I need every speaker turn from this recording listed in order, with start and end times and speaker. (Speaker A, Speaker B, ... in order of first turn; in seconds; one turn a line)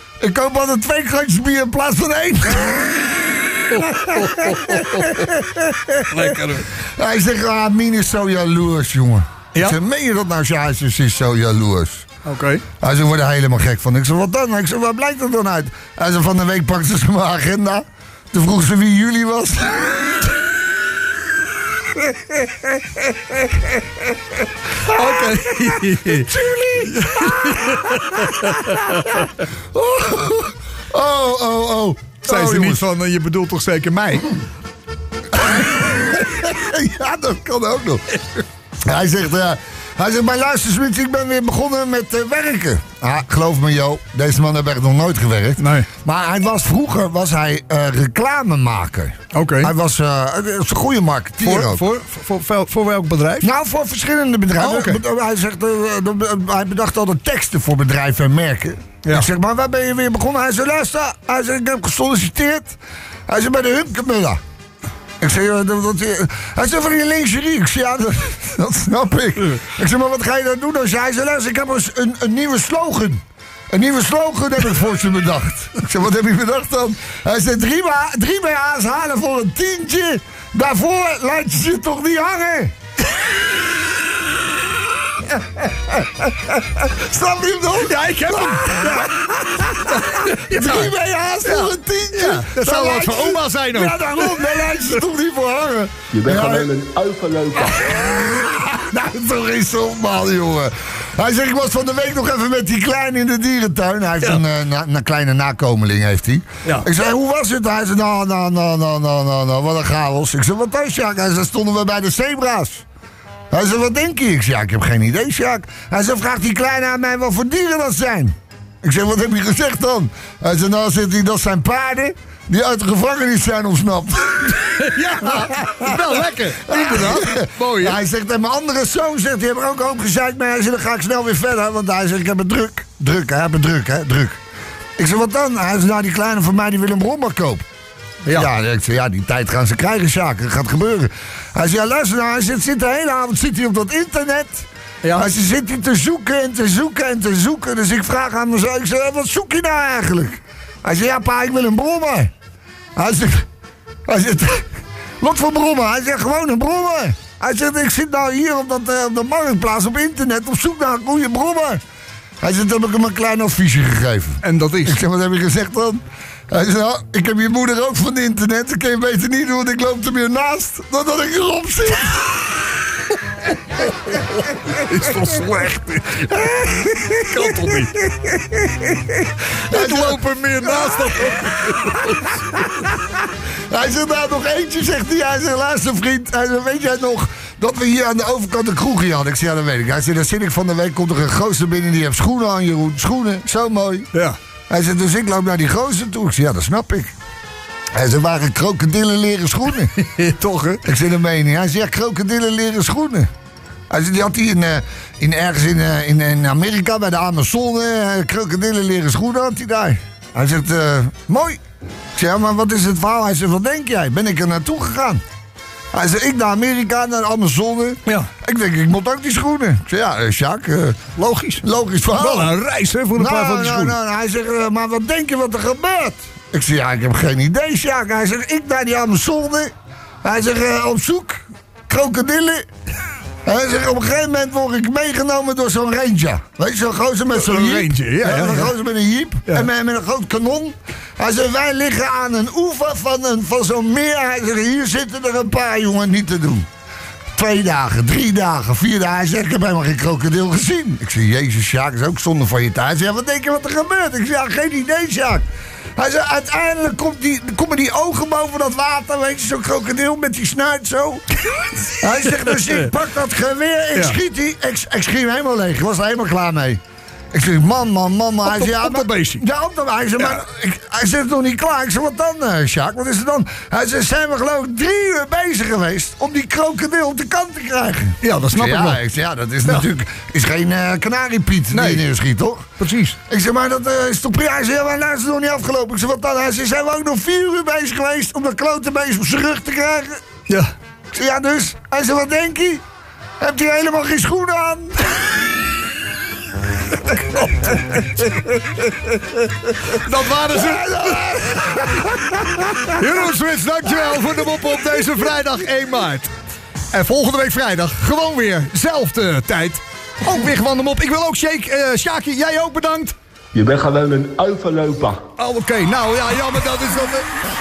Speaker A: 0.2-6.0
Speaker B: 3.7-5.3
Speaker B: 6.1-6.7
Speaker A: 6.7-12.1
Speaker B: 12.2-12.6
Speaker A: 12.8-20.4
Speaker B: 24.8-26.3
Speaker A: 26.2-32.9
Speaker B: 26.9-29.3
Speaker B: 32.2-34.3
Speaker A: 35.3-38.0
Speaker A: 38.8-51.8
Speaker B: 45.6-45.9
Speaker B: 49.3-49.7
Speaker B: 51.4-53.5
Speaker A: 53.4-64.4
Speaker B: 54.6-55.0
Speaker A: 65.2-82.7
Speaker A: 85.2-96.7
Speaker B: 87.8-89.1
Speaker B: 89.8-90.9
Speaker B: 91.4-94.8
Speaker C: 96.1-97.9
Speaker A: 97.6-112.8
Speaker A: 113.5-134.4
Speaker B: 124.6-128.0
Speaker A: 135.0-137.7
Speaker A: 138.3-152.3
Speaker B: 145.0-145.3
Speaker A: 152.9-153.4
Speaker A: 154.1-161.8
Speaker A: 162.4-172.8
Speaker B: 164.4-165.0
Speaker B: 174.7-177.9
Speaker A: 176.4-177.2
Speaker A: 177.9-179.2
Speaker B: 179.6-182.3
Speaker A: 179.7-182.1
Speaker A: 183.7-194.1
Speaker A: 194.7-197.1
Speaker A: 197.9-199.9
Speaker B: 199.9-200.8
Speaker A: 200.8-203.3
Speaker A: 203.9-211.6
Speaker A: 212.1-215.2
Speaker A: 215.9-221.0
Speaker B: 221.2-224.0
Speaker A: 221.6-222.5
Speaker A: 223.1-232.7
Speaker A: 233.4-246.7
Speaker B: 237.3-238.7
Speaker A: 247.3-255.4
Speaker A: 255.9-261.2
Speaker A: 262.0-266.8
Speaker B: 262.2-262.6
Speaker A: 267.3-282.7
Speaker B: 268.4-269.4
Speaker B: 278.2-279.0
Speaker B: 281.7-282.0
Speaker B: 282.8-283.1
Speaker A: 283.3-290.2
Speaker B: 290.5-290.7
Speaker A: 291.1-292.8
Speaker A: 293.4-295.6
Speaker A: 297.1-298.5
Speaker B: 299.9-301.2
Speaker A: 300.5-303.0
Speaker B: 302.9-306.3
Speaker B: 306.9-313.1
Speaker C: 313.5-315.2
Speaker B: 315.4-317.3